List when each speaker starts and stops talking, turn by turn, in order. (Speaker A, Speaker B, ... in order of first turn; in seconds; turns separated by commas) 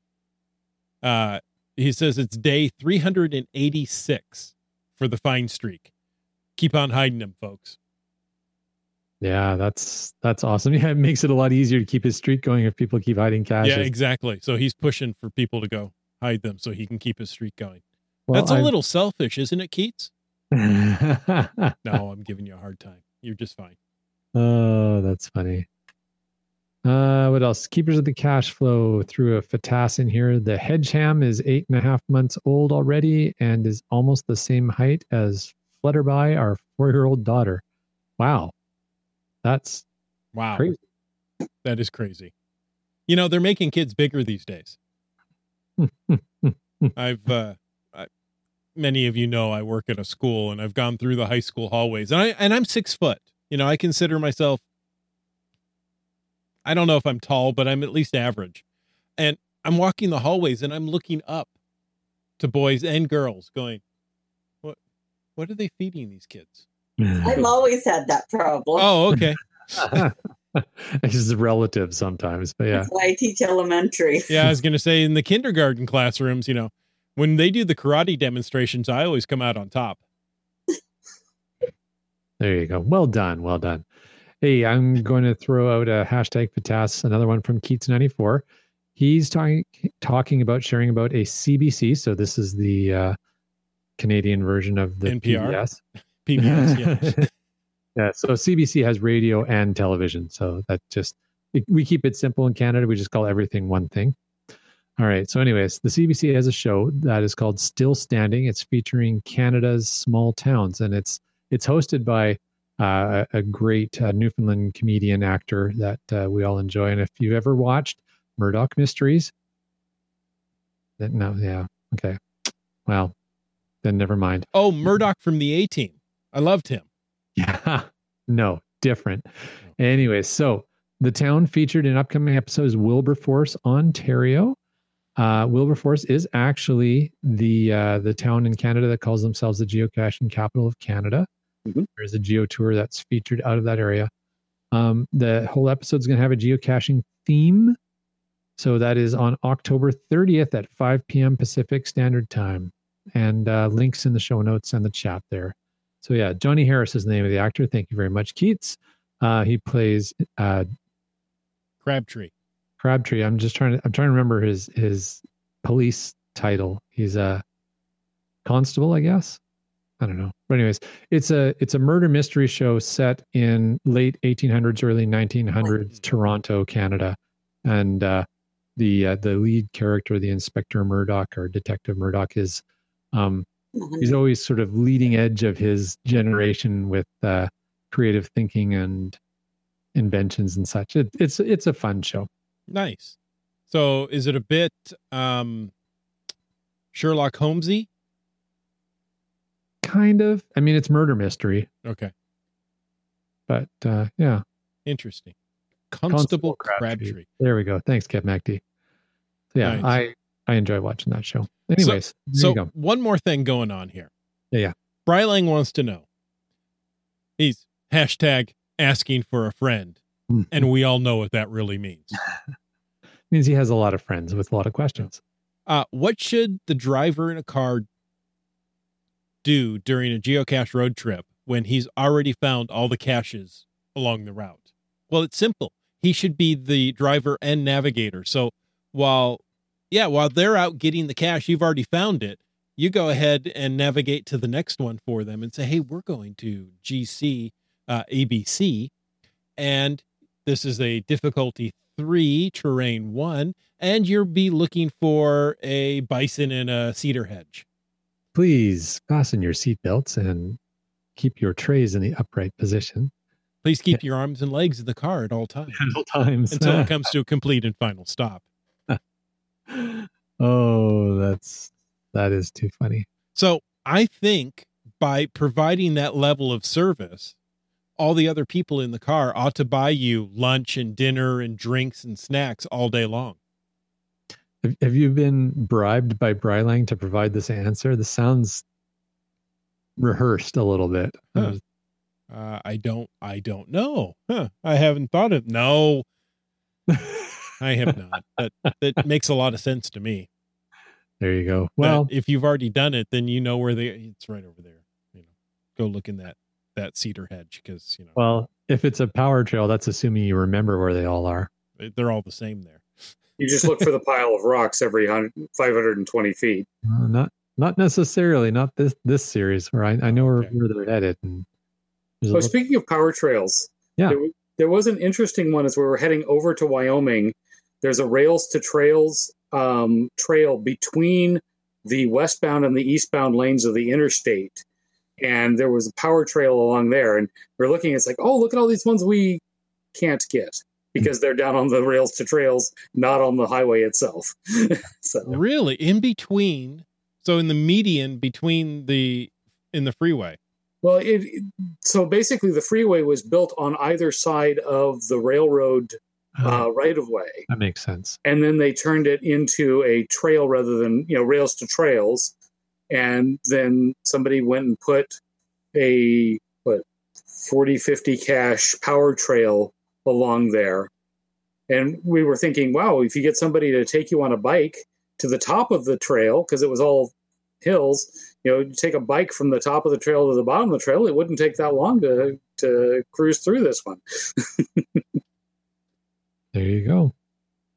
Speaker A: 1.0-5.9, Speaker A: 6.6-7.8, Speaker B: 9.2-13.9, Speaker A: 13.6-17.8, Speaker B: 18.3-18.7, Speaker A: 18.3-20.1, Speaker B: 20.5-22.0, Speaker A: 21.8-23.8, Speaker B: 24.4-25.7, Speaker B: 26.9-37.6, Speaker B: 38.2-38.5, Speaker B: 39.4-39.9, Speaker A: 40.4-40.7, Speaker A: 41.6-42.3, Speaker A: 43.1-44.8, Speaker B: 45.8-47.0, Speaker A: 47.0-48.1, Speaker A: 48.8-54.6, Speaker A: 56.6-58.6, Speaker A: 59.2-61.5, Speaker A: 62.4-63.8, Speaker A: 65.4-66.7, Speaker B: 67.0-67.4, Speaker C: 67.2-68.9, Speaker A: 68.8-70.1, Speaker B: 69.8-72.9, Speaker C: 72.8-74.5, Speaker A: 74.3-80.0, Speaker B: 82.4-83.9, Speaker B: 84.4-88.5, Speaker B: 89.0-93.2, Speaker B: 94.0-95.8, Speaker A: 95.1-95.6, Speaker A: 96.2-97.3, Speaker B: 96.4-97.3, Speaker B: 98.0-104.2, Speaker B: 105.0-119.3, Speaker B: 121.0-122.2, Speaker B: 122.9-123.1, Speaker B: 123.8-124.5, Speaker A: 124.5-126.8, Speaker B: 127.4-134.6, Speaker B: 135.2-141.3, Speaker B: 142.0-144.1, Speaker B: 144.7-147.8, Speaker B: 148.6-160.7, Speaker A: 161.8-162.3, Speaker B: 162.8-167.4, Speaker B: 168.4-169.4, Speaker B: 170.0-182.6, Speaker B: 183.1-183.5, Speaker C: 183.8-184.1, Speaker B: 184.0-189.2, Speaker B: 189.9-192.3, Speaker A: 192.7-193.2, Speaker A: 193.7-195.7, Speaker A: 196.9-197.9, Speaker B: 199.8-201.7, Speaker A: 201.8-202.1, Speaker B: 203.5-204.4, Speaker A: 204.9-205.3, Speaker A: 205.9-207.3, Speaker B: 206.1-208.6, Speaker B: 209.5-212.7, Speaker A: 209.6-209.9, Speaker A: 211.8-214.1, Speaker A: 215.1-216.1, Speaker A: 217.4-222.2, Speaker B: 220.3-220.7, Speaker B: 223.3-225.2, Speaker A: 225.7-227.9, Speaker A: 229.4-248.9, Speaker A: 249.6-257.6, Speaker B: 258.4-260.6, Speaker B: 261.2-263.1, Speaker A: 263.6-265.9, Speaker B: 265.7-266.9, Speaker A: 266.5-268.4, Speaker B: 269.7-273.1, Speaker A: 273.4-277.4, Speaker A: 278.0-283.4, Speaker B: 284.6-288.6, Speaker B: 290.0-291.6, Speaker A: 292.3-296.1, Speaker B: 296.9-297.5, Speaker A: 297.6-300.3, Speaker B: 301.2-302.1, Speaker A: 301.8-305.2, Speaker A: 305.8-308.2, Speaker B: 308.2-311.5, Speaker A: 311.8-312.9, Speaker D: 313.4-316.7, Speaker B: 316.9-321.5, Speaker A: 320.1-320.5, Speaker B: 322.2-322.5, Speaker D: 322.3-334.6, Speaker D: 335.2-339.4, Speaker D: 339.9-345.4, Speaker A: 345.3-350.4, Speaker D: 350.8-357.5, Speaker B: 356.4-356.7, Speaker B: 357.5-358.2, Speaker D: 358.2-362.3, Speaker D: 362.9-365.2, Speaker D: 365.7-366.8, Speaker D: 367.4-370.9, Speaker D: 371.7-385.0, Speaker B: 386.5-387.1